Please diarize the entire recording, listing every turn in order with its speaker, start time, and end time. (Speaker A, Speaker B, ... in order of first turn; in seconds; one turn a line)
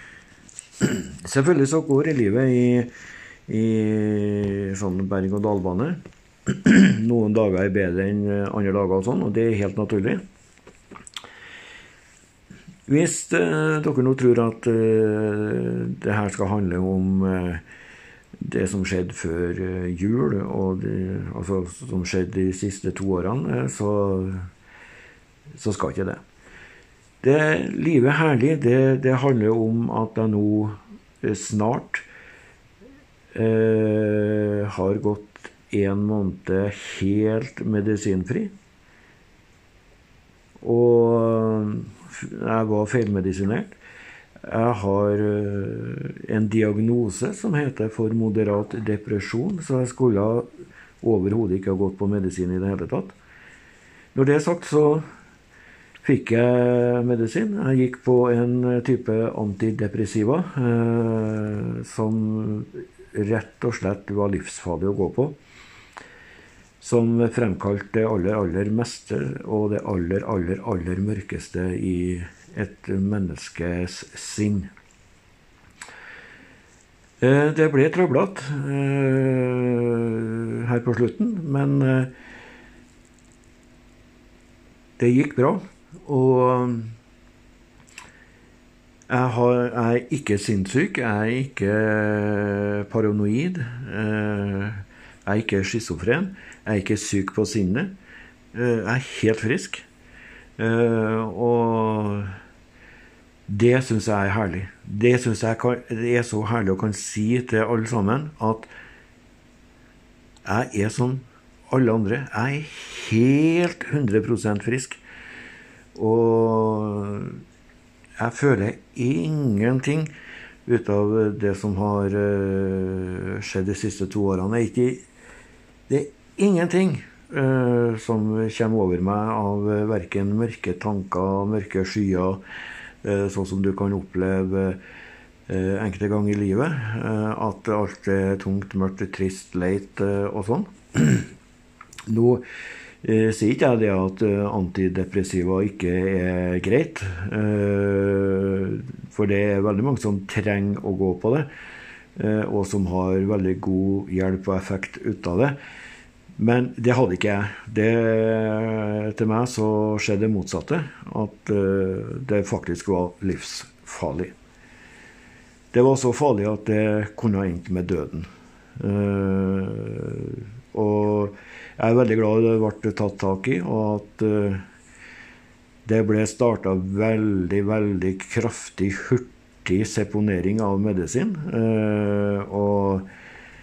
Speaker A: 0.8-2.9
Speaker A: 3.5-10.2
Speaker A: 12.9-17.6
Speaker A: 18.4-24.5
Speaker A: 25.5-26.2
Speaker A: 27.2-32.0
Speaker A: 33.3-38.5
Speaker A: 40.6-43.7
Speaker A: 44.4-50.5
Speaker A: 51.0-53.2
Speaker A: 54.1-55.0
Speaker A: 56.0-65.4
Speaker A: 66.8-74.7
Speaker A: 77.2-82.1
Speaker A: 85.0-86.9
Speaker A: 89.1-98.0
Speaker A: 98.5-99.8
Speaker A: 100.6-102.3
Speaker A: 103.5-108.7
Speaker A: 110.5-115.0
Speaker A: 116.0-117.4
Speaker A: 118.2-120.1
Speaker A: 120.7-125.0
Speaker A: 125.9-132.4
Speaker A: 133.0-134.8
Speaker A: 135.5-141.3
Speaker A: 142.1-142.4
Speaker A: 143.0-151.5
Speaker A: 152.2-155.6
Speaker A: 156.4-164.3
Speaker A: 165.7-168.3
Speaker A: 168.8-174.6
Speaker A: 175.9-183.1